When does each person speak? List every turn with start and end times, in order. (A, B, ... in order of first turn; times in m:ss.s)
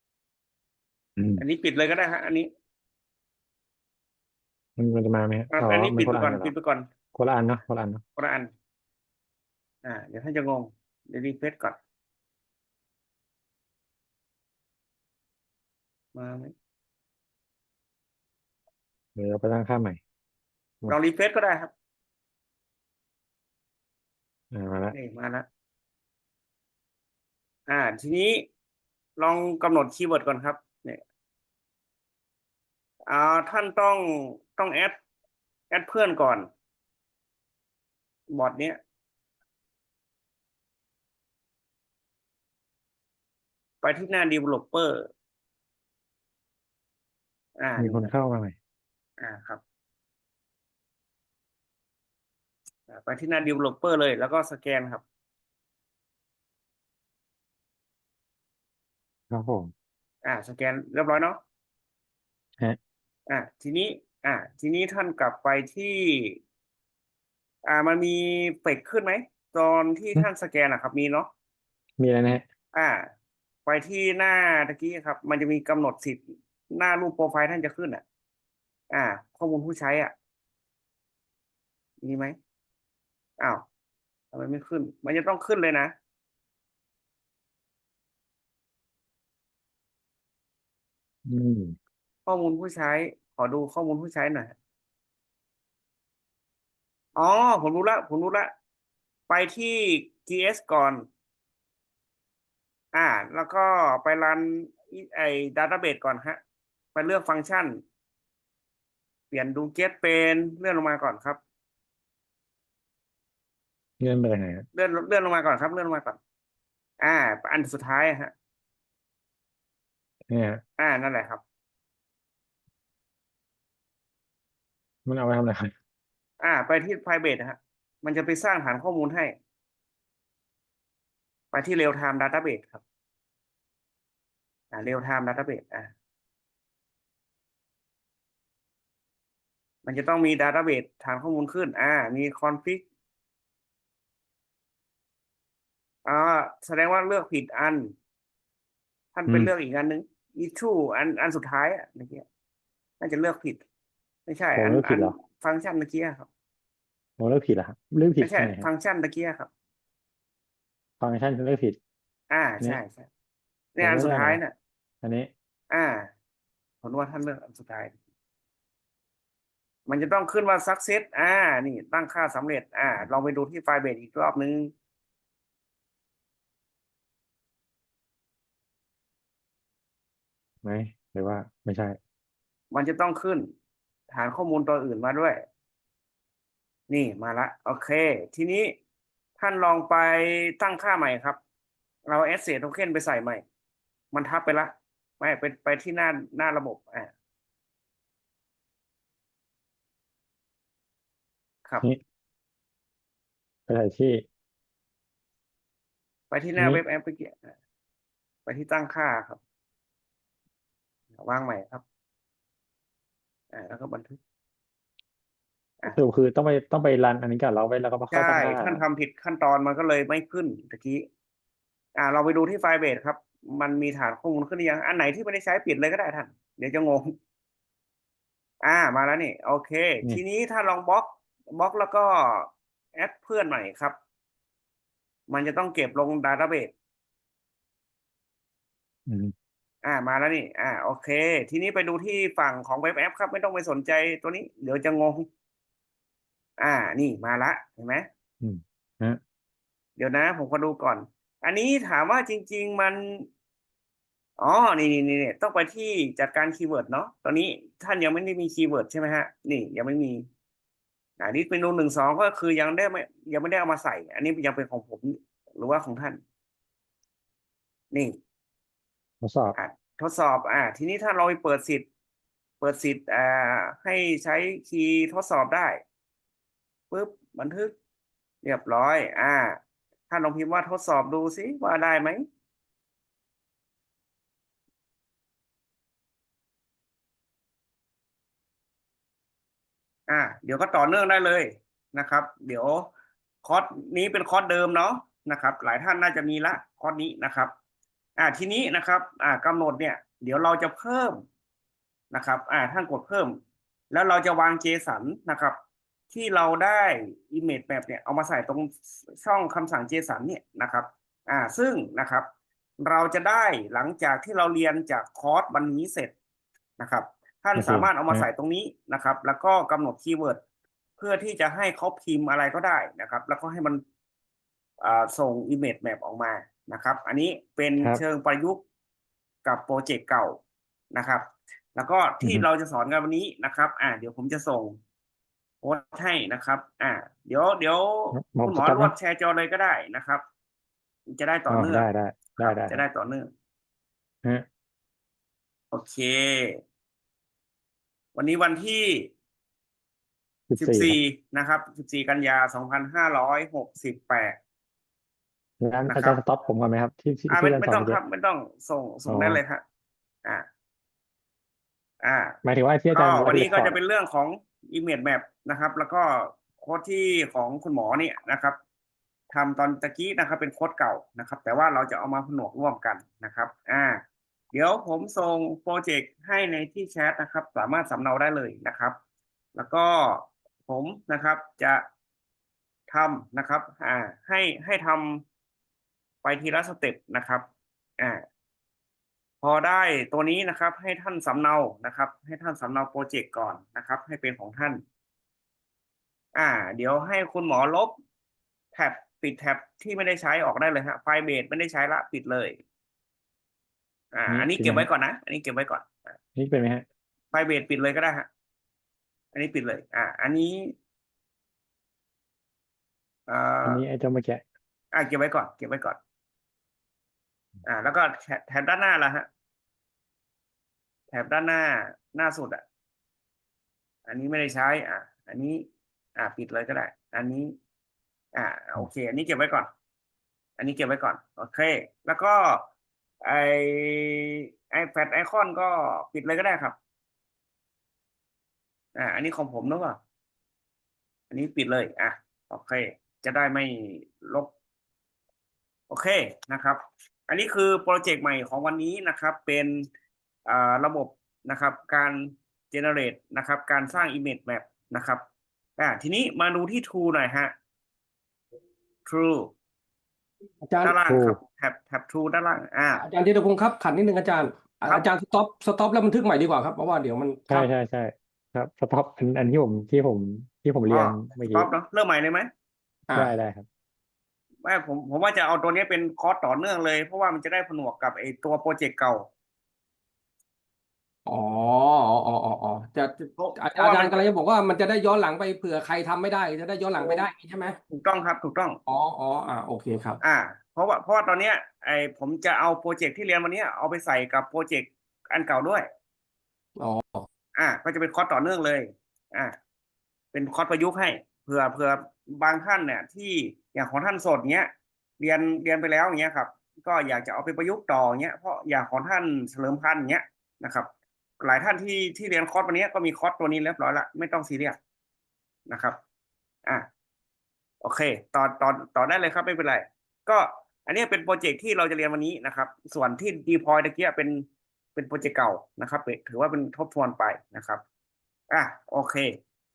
0:01.2-0:01.4 A
0:01.4-0:02.5 B
0:04.8-0:06.5 A
0:05.5-0:06.9 B
0:07.1-0:08.0 A
0:08.2-0:08.5 B
0:09.8-0:11.8 B
0:16.1-0:16.5 B
0:19.2-0:20.0 A
0:20.9-0:21.7 B
0:24.5-0:24.9 A
0:24.9-0:25.4 B
0:27.7-0:28.5 B
0:29.2-0:31.0 B
0:33.1-0:35.0 B
0:35.7-0:36.5 B
0:38.3-0:38.8 B
0:43.8-0:45.1 B
0:47.6-0:48.1 B
0:47.8-0:48.6 A
0:49.2-0:49.6 B
0:52.9-0:55.0 B
0:59.3-0:59.7 A
1:00.2-1:01.4 B
1:03.3-1:06.4 B
1:07.6-1:11.3 B
1:12.0-1:12.4 A
1:12.7-1:13.1 B
1:13.6-1:18.0 B
1:18.9-1:20.1 B
1:22.0-1:22.4 B
1:23.4-1:23.6 B
1:24.3-1:25.9 B
1:31.2-1:31.8 A
1:32.2-1:34.5 B
1:37.2-1:38.5 B
1:39.3-1:41.0 B
1:42.9-1:46.4 B
1:46.9-1:47.8 B
1:49.3-1:51.4 B
1:54.0-1:54.6 A
1:54.7-1:56.2 B
1:57.0-1:58.3 B
2:00.3-2:00.6 A
2:00.8-2:01.4 B
2:05.0-2:05.7 A
2:06.4-2:09.3 B
2:11.5-2:12.8 B
2:14.7-2:15.9 B
2:19.8-2:22.8 B
2:26.0-2:27.9 B
2:29.1-2:32.2 B
2:29.3-2:29.5 A
2:33.0-2:33.6 B
2:34.3-2:36.3 B
2:34.6-2:35.2 A
2:37.2-2:38.7 A
2:38.2-2:39.5 B
2:41.0-2:41.8 A
2:42.3-2:43.1 B
2:43.7-2:44.5 B
2:43.8-2:44.4 A
2:45.0-2:45.3 A
2:45.7-2:46.1 B
2:46.8-2:47.9 B
2:49.8-2:54.7 B
3:00.6-3:02.0 A
3:02.7-3:03.5 B
3:04.1-3:05.4 B
3:06.9-3:08.7 B
3:09.4-3:11.4 B
3:12.1-3:13.4 B
3:14.1-3:17.1 B
3:23.7-3:24.2 A
3:26.3-3:27.5 B
3:28.4-3:29.4 B
3:31.1-3:31.8 B
3:33.5-3:34.2 B
3:35.9-3:38.8 A
3:38.1-3:41.0 B
3:41.9-3:47.1 B
3:48.6-3:54.0 B
3:55.3-3:56.7 B
3:59.1-3:59.3 A
3:59.8-4:05.3 B
4:06.6-4:08.1 B
4:08.4-4:09.2 A
4:10.0-4:13.3 B
4:14.4-4:20.3 B
4:21.2-4:26.2 B
4:27.9-4:28.2 B
4:29.2-4:29.6 A
4:29.6-4:31.8 B
4:32.6-4:35.8 B
4:36.9-4:37.7 B
4:38.4-4:42.2 B
4:50.1-4:52.8 B
4:53.4-4:57.5 B
4:58.2-5:01.2 B
5:02.1-5:03.4 B
5:03.9-5:05.6 B
5:06.1-5:12.3 B
5:12.8-5:16.1 B
5:16.8-5:20.4 B
5:17.6-5:18.3 A
5:21.0-5:23.8 B
5:24.8-5:28.6 B
5:29.4-5:30.4 B
5:30.9-5:34.8 B
5:35.6-5:40.2 B
5:38.1-5:38.9 A
5:41.1-5:41.8 B
5:41.5-5:42.8 A
5:42.4-5:43.3 B
5:45.7-5:46.6 B
5:48.1-5:49.1 B
5:50.5-5:51.0 A
5:50.6-5:54.4 B
5:55.6-5:58.0 A
5:55.9-5:56.2 B
5:57.3-5:59.6 B
5:59.1-5:59.4 A
6:02.0-6:02.4 B
6:02.4-6:03.8 A
6:02.9-6:08.6 B
6:09.3-6:19.0 B
6:19.5-6:21.8 B
6:22.9-6:25.2 B
6:26.2-6:27.4 B
6:29.4-6:34.8 B
6:36.3-6:37.9 B
6:38.7-6:42.6 B
6:44.1-6:46.2 B
6:44.3-6:44.9 A
6:46.4-6:46.8 A
6:47.3-6:48.3 B
6:49.3-6:50.7 B
6:53.3-6:53.8 B
6:53.6-6:54.4 A
6:54.9-6:56.0 B
6:57.6-6:59.3 B
7:01.1-7:02.6 B
7:04.0-7:07.5 B
7:08.3-7:09.7 B
7:10.6-7:12.6 B
7:13.2-7:16.8 B
7:18.9-7:20.0 B
7:21.3-7:24.5 B
7:25.9-7:29.9 B
7:30.4-7:35.2 B
7:35.8-7:37.5 B
7:39.0-7:39.5 B
7:40.6-7:41.0 C
7:40.8-7:43.0 B
7:41.1-7:41.4 A
7:43.0-7:47.7 C
7:47.5-7:51.7 A
7:50.9-7:52.5 B
7:53.1-7:53.6 A
7:54.6-7:59.3 B
8:01.2-8:07.8 C
8:03.4-8:04.2 B
8:07.9-8:08.8 B
8:08.9-8:10.2 C
8:10.2-8:15.8 B
8:16.8-8:17.3 C
8:17.6-8:19.6 B
8:20.3-8:30.9 B
8:31.4-8:34.8 B
8:35.7-8:36.0 B
8:37.8-8:47.8 B
8:48.5-8:49.4 B